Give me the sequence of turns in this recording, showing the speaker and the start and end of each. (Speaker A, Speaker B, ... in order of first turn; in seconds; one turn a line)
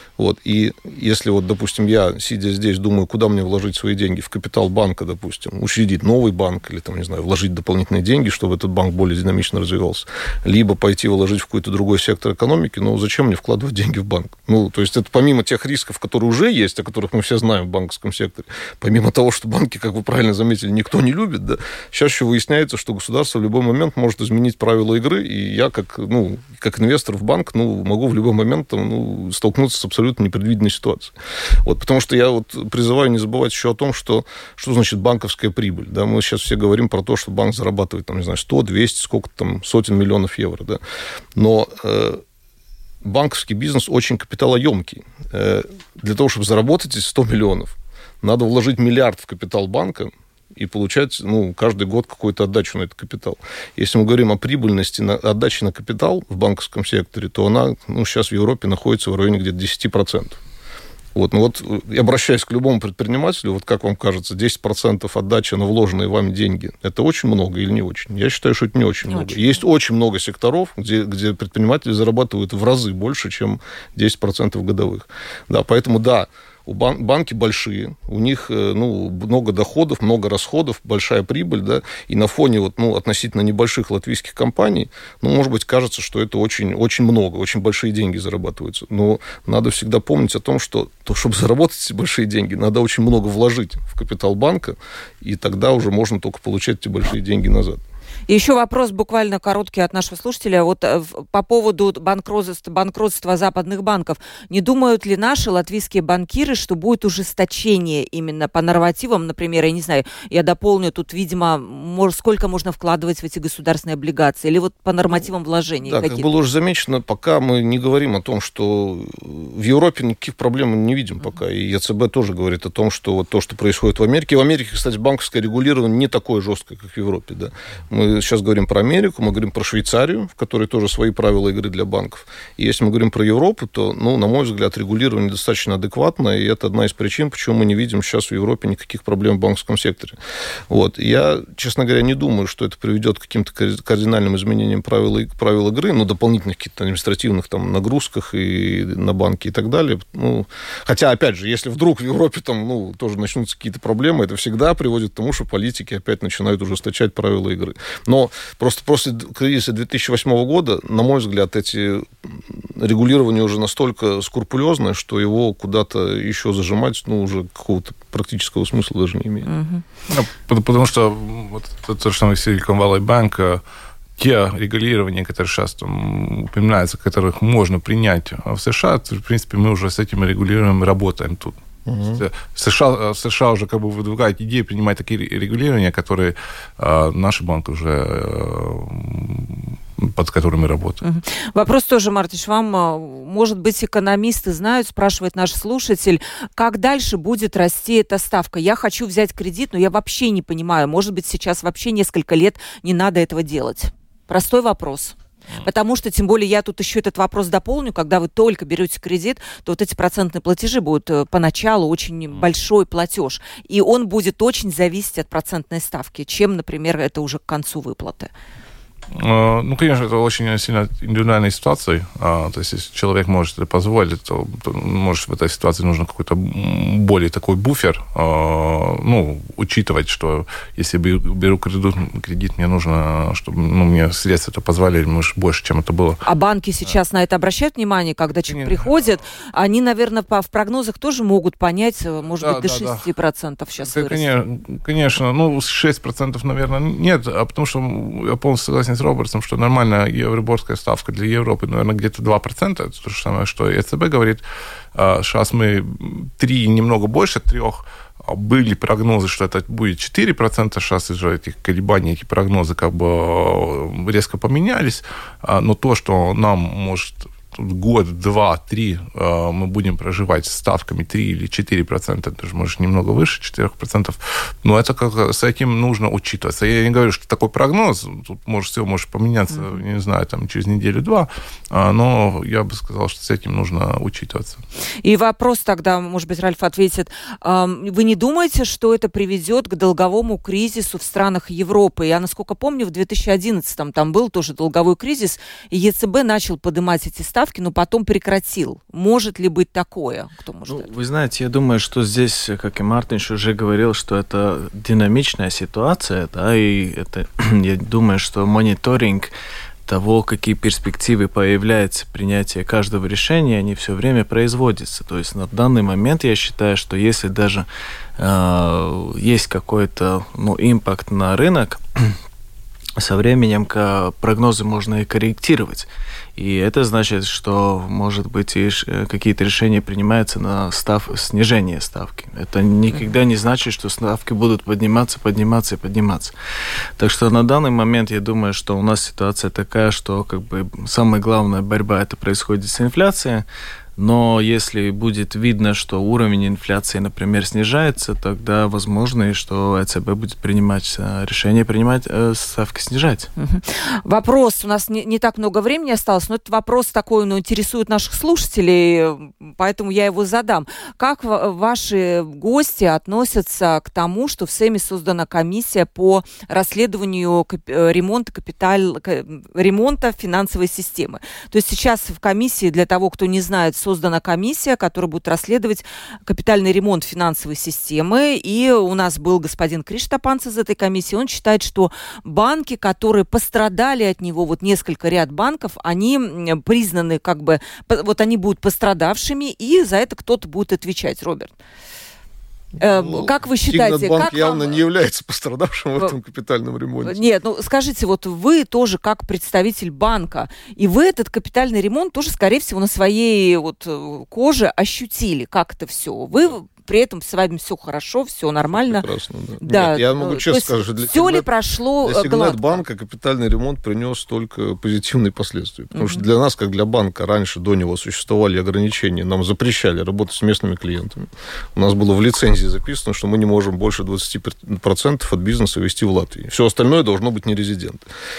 Speaker A: 0.2-40.8
Speaker A: 41.4-42.2
Speaker A: 43.0-60.4
Speaker A: 61.1-97.8
Speaker B: 69.1-69.6
Speaker B: 98.3-116.2
Speaker A: 115.8-140.2
Speaker A: 140.7-169.5
Speaker B: 169.4-169.8
Speaker C: 170.1-173.6
Speaker C: 174.2-191.0
Speaker A: 181.8-182.2
Speaker B: 191.0-218.3
Speaker C: 219.1-236.2
Speaker B: 236.2-244.2
Speaker C: 238.4-239.2
Speaker C: 242.4-243.1
Speaker C: 243.8-254.4
Speaker C: 254.9-284.6
Speaker B: 279.5-279.8
Speaker B: 285.0-300.9
Speaker D: 300.7-309.3
Speaker D: 309.9-317.6
Speaker D: 318.2-322.1
Speaker D: 323.0-336.3
Speaker D: 337.0-343.4
Speaker D: 344.0-353.3
Speaker B: 353.4-391.5
Speaker B: 392.8-394.8
Speaker A: 392.8-397.2
Speaker B: 397.0-409.1
Speaker A: 408.8-411.5
Speaker B: 409.6-412.8
Speaker A: 412.0-428.0
Speaker B: 415.9-416.2